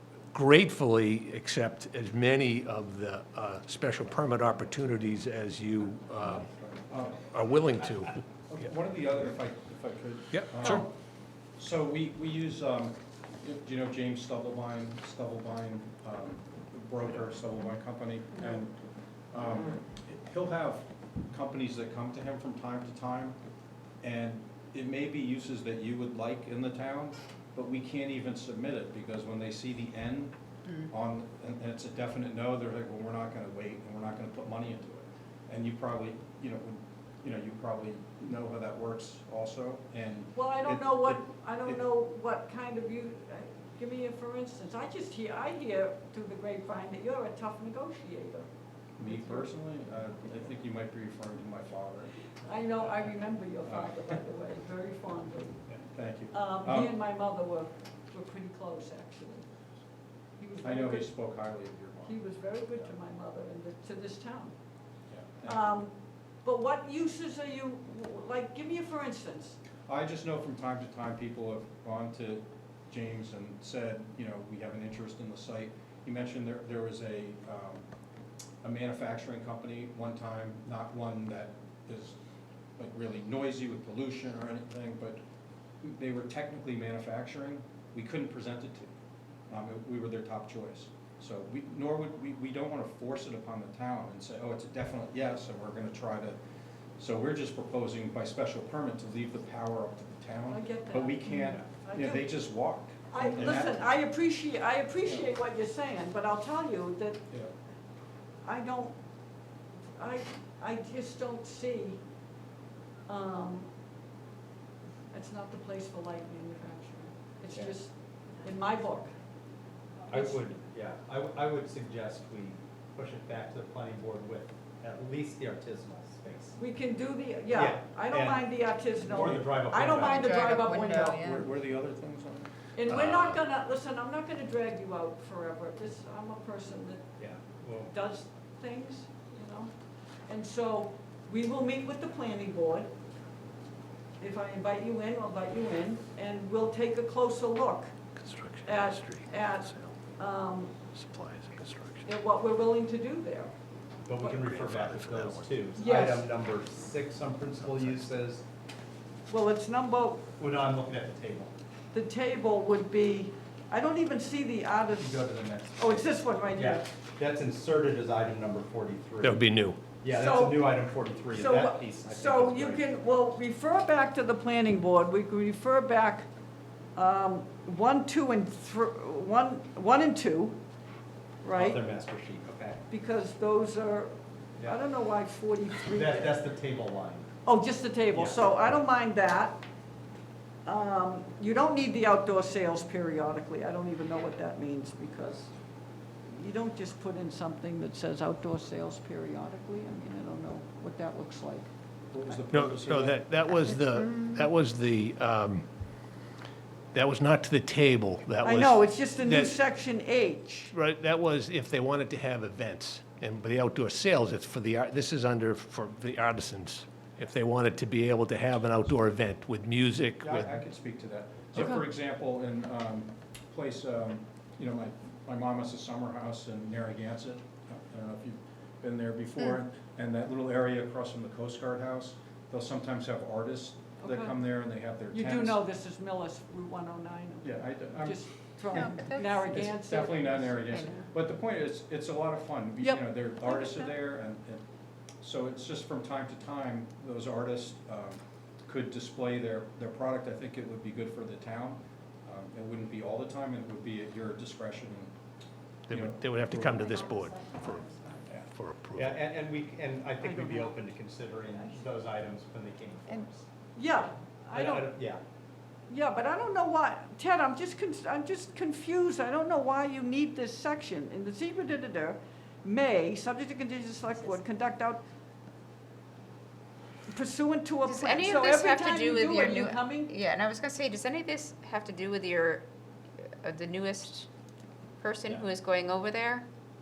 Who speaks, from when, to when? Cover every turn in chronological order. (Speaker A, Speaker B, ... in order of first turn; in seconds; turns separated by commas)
Speaker A: 0.3-6.5, Speaker B: 6.9-7.2, Speaker A: 7.1-8.2, Speaker B: 8.5-10.9, Speaker A: 10.3-10.9, Speaker B: 11.6-18.8, Speaker B: 19.3-23.4, Speaker B: 24.0-30.4, Speaker B: 30.9-41.8, Speaker C: 40.3-48.5, Speaker B: 49.0-52.2, Speaker C: 49.0-49.5, Speaker C: 52.4-55.6, Speaker B: 53.6-54.1, Speaker B: 55.9-56.9, Speaker C: 56.3-59.5, Speaker C: 60.4-61.1, Speaker B: 60.6-62.9, Speaker C: 62.0-64.5, Speaker B: 65.1-65.7, Speaker C: 65.5-65.9, Speaker C: 66.4-69.6, Speaker B: 69.9-77.8, Speaker B: 78.6-82.2, Speaker B: 82.8-85.2, Speaker B: 85.8-88.9, Speaker B: 89.5-96.4, Speaker B: 97.0-103.8, Speaker C: 100.5-102.3, Speaker C: 103.1-107.2, Speaker C: 108.5-109.0, Speaker C: 110.0-112.0, Speaker C: 113.1-113.7, Speaker C: 115.1-119.1, Speaker D: 120.1-126.6, Speaker C: 126.6-131.3, Speaker D: 127.5-128.4, Speaker D: 129.0-130.5, Speaker E: 130.0-131.4, Speaker B: 130.7-132.5, Speaker C: 132.8-137.0, Speaker A: 132.9-133.4, Speaker D: 137.2-137.9, Speaker C: 137.9-139.7, Speaker C: 140.3-142.9, Speaker C: 144.2-147.9, Speaker A: 148.2-150.0, Speaker C: 148.6-150.7, Speaker A: 150.9-152.1, Speaker C: 152.1-153.6, Speaker D: 154.1-158.4, Speaker A: 154.2-155.7, Speaker C: 155.8-156.3, Speaker A: 157.6-158.0, Speaker C: 159.3-160.3, Speaker D: 160.4-161.5, Speaker C: 161.9-166.9, Speaker D: 164.9-169.4, Speaker A: 169.2-169.8, Speaker D: 170.0-172.8, Speaker C: 170.1-176.3, Speaker C: 176.9-180.6, Speaker C: 181.4-181.8, Speaker D: 181.5-182.8, Speaker C: 182.9-186.4, Speaker D: 185.9-187.3, Speaker C: 187.4-189.6, Speaker D: 188.1-188.5, Speaker C: 190.7-195.5, Speaker C: 196.3-201.7, Speaker B: 202.1-203.2, Speaker A: 202.5-205.7, Speaker E: 203.9-204.5, Speaker A: 206.9-209.6, Speaker C: 208.4-210.7, Speaker A: 210.7-220.6, Speaker B: 220.2-235.6, Speaker C: 234.0-234.4, Speaker C: 235.1-241.0, Speaker B: 237.4-244.6, Speaker E: 238.7-239.4, Speaker E: 240.7-240.9, Speaker C: 242.8-243.1, Speaker B: 245.2-255.1, Speaker A: 255.9-259.2, Speaker B: 255.9-256.9, Speaker E: 256.9-258.2, Speaker D: 258.3-263.4, Speaker C: 260.2-260.8, Speaker C: 263.8-265.1, Speaker D: 264.5-265.2, Speaker C: 265.9-275.0, Speaker C: 277.1-280.1, Speaker E: 277.8-282.6, Speaker E: 283.4-284.3, Speaker E: 285.0-286.5